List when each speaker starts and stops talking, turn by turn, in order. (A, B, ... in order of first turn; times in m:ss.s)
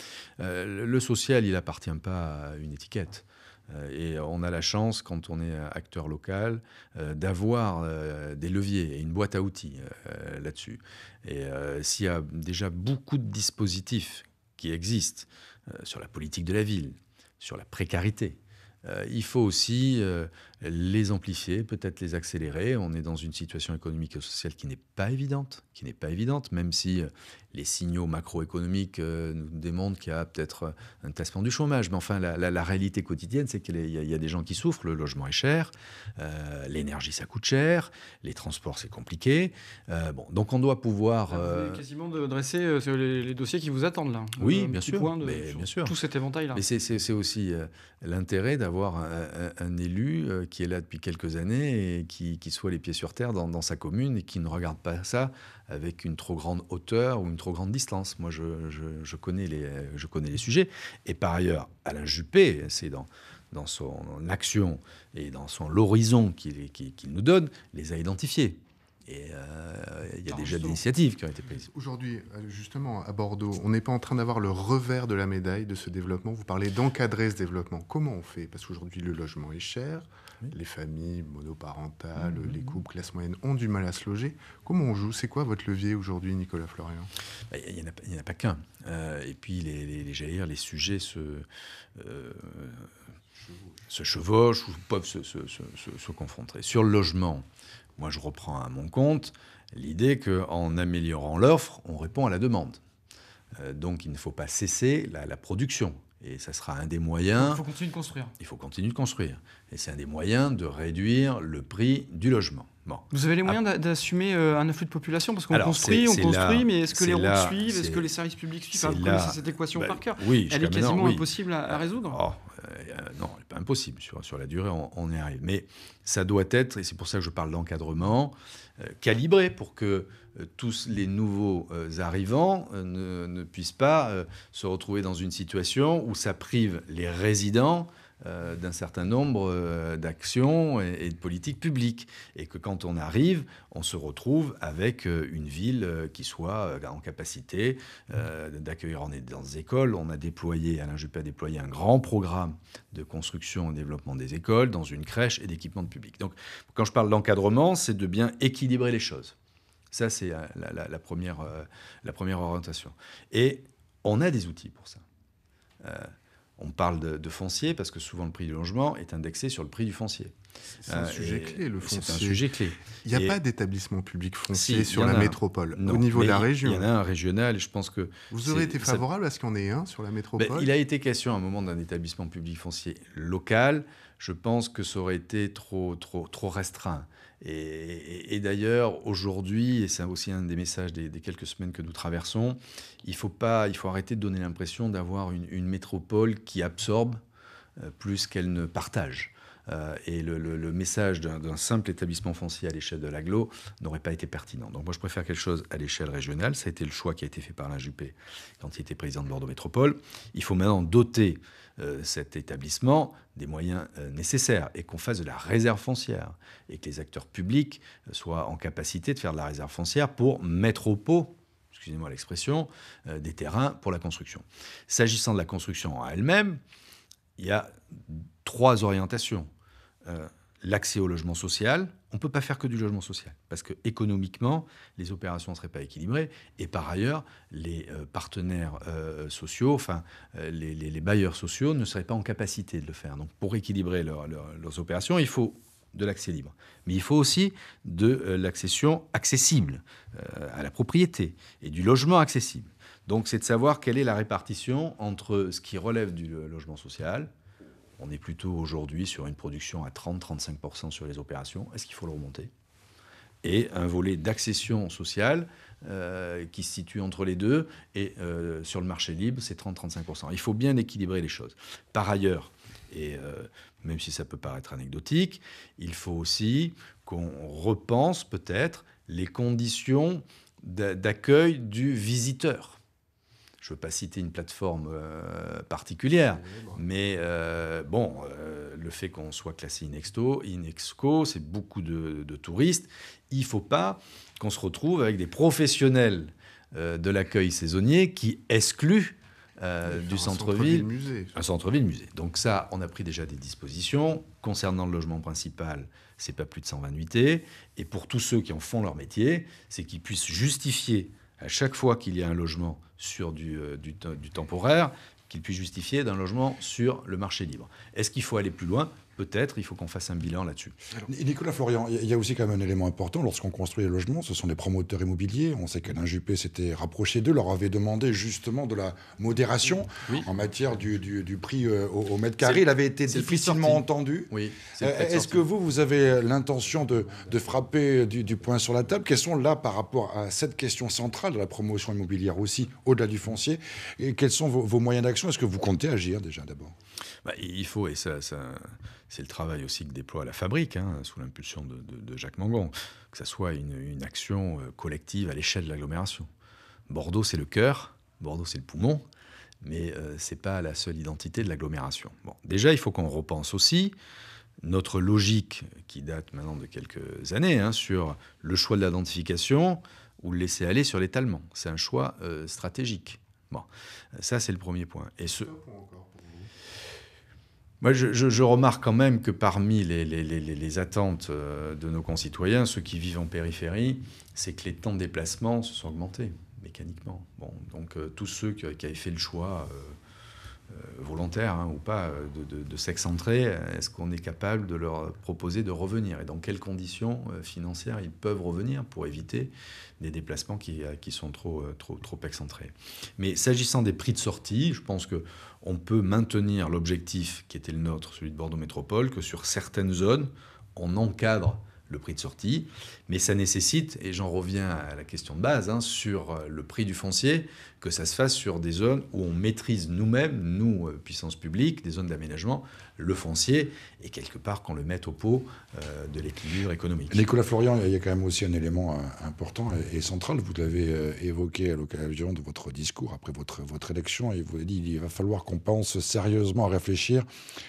0:00.4-0:41.8 A
0:41.3-0:46.6 B
0:44.4-0:45.9 A
0:46.5-1:11.7 A
1:10.3-1:10.8 C
1:11.7-1:27.1 C
1:22.2-1:22.8 A
1:27.5-1:31.4 A
1:32.0-1:32.9 A
1:33.4-1:33.7 C
1:33.9-1:37.4 A
1:38.0-1:42.8 A
1:43.6-1:47.6 A
1:47.4-1:48.3 B
1:48.4-1:53.6 A
1:53.1-2:02.2 B
1:55.5-1:58.1 A
1:58.7-2:39.3 A
2:39.9-2:45.0 A
2:45.8-2:50.3 A
2:50.8-2:52.4 C
2:50.9-2:53.4 A
2:53.0-2:56.9 C
2:54.5-2:59.0 A
2:58.3-3:00.7 C
3:00.4-3:17.2 A
3:17.8-3:46.6 A
3:47.4-3:49.5 A
3:50.0-4:17.3 A
4:18.0-4:22.5 A
4:23.4-4:42.8 A
4:43.6-5:20.8 A
4:46.2-4:46.8 C
4:59.8-5:01.3 C
5:21.0-5:46.7 D
5:29.6-5:30.8 C
5:32.4-5:35.4 A
5:36.4-5:37.7 C
5:38.4-5:38.8 C
5:47.2-5:56.3 A
5:56.9-5:59.0 A
5:59.6-6:03.9 A
6:04.6-6:15.5 A
6:15.2-6:16.5 C
6:17.8-6:30.0 A
6:30.7-7:07.3 A
7:07.1-7:17.2 D